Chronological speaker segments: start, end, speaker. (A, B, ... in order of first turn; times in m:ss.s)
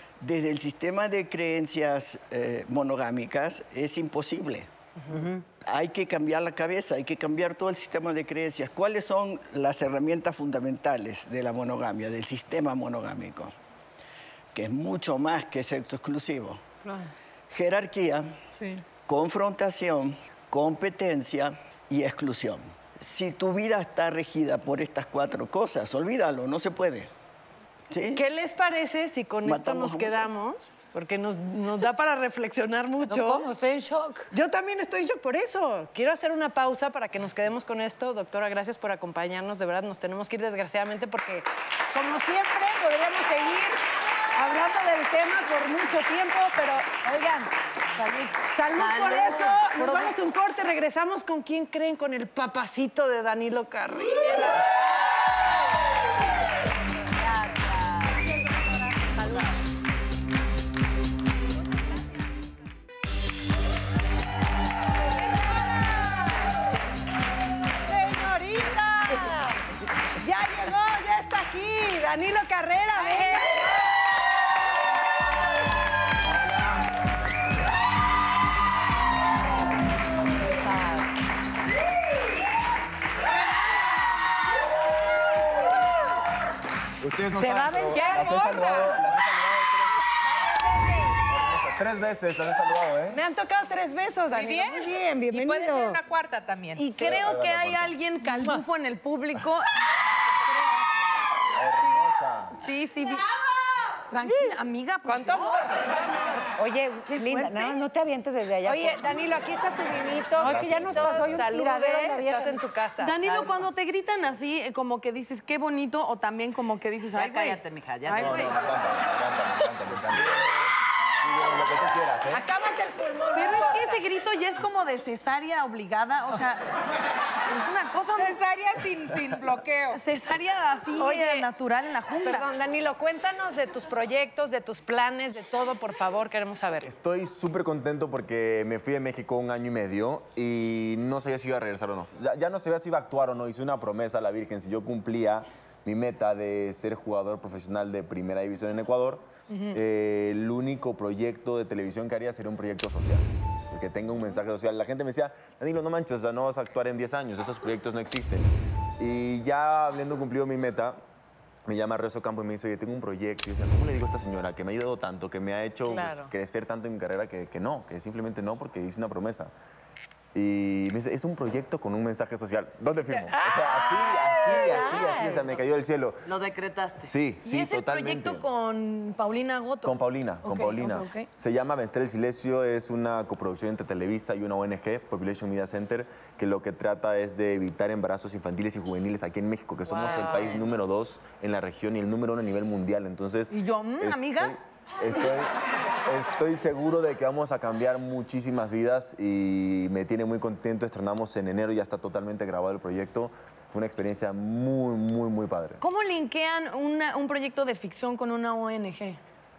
0:00.2-0:04.7 A
0:05.5-0:13.5 A
0:14.5-0:16.6 A
0:17.5-0:18.4 A
0:18.5-0:18.8 B
0:19.0-0:27.1 A
0:27.9-0:28.2 A
0:28.1-0:33.5 C
0:29.4-0:30.3 A
0:33.1-0:34.3 D
0:34.3-0:47.5 C
0:48.0-0:50.1 E
0:48.5-0:54.8 C
0:48.7-0:49.7 F
0:57.1-0:58.3 F
0:59.2-0:59.5 F
1:07.9-1:09.6 C
1:10.2-1:13.6 C
1:13.0-1:13.4 B
1:20.5-1:21.1 D
1:27.0-1:30.0 G
1:27.4-1:28.3 D
1:27.9-1:29.0 B
1:30.2-1:31.2 C
1:31.2-1:33.2 G
1:33.1-1:36.0 C
1:34.3-1:37.0 B
1:36.8-1:39.7 E
1:37.0-1:38.0 G
1:41.5-1:42.6 G
1:42.6-1:43.2 E
1:44.1-1:45.6 E
1:45.0-1:46.5 C
1:46.6-1:49.1 D
1:47.1-1:47.7 E
1:48.6-1:53.2 C
1:50.4-1:52.6 D
1:50.4-1:51.5 G
1:53.0-1:58.6 E
1:53.2-1:53.6 F
1:57.1-1:58.7 F
1:58.1-2:00.6 G
2:01.2-2:02.4 G
2:02.3-2:04.0 C
2:03.3-2:06.6 E
2:07.5-2:08.4 E
2:08.1-2:10.0 B
2:09.9-2:12.4 E
2:11.0-2:11.5 C
2:12.2-2:16.9 C
2:16.8-2:41.0 G
2:29.5-2:29.8 E
2:41.6-2:49.5 G
2:45.8-2:46.3 D
2:50.3-2:56.3 G
2:53.3-2:55.3 C
2:54.4-2:55.4 D
2:56.2-2:57.1 F
2:57.0-2:58.5 G
2:57.4-3:01.3 E
2:59.8-3:25.8 G
3:10.1-3:10.4 C
3:10.1-3:10.5 D
3:13.5-3:14.6 E
3:25.8-3:29.2 E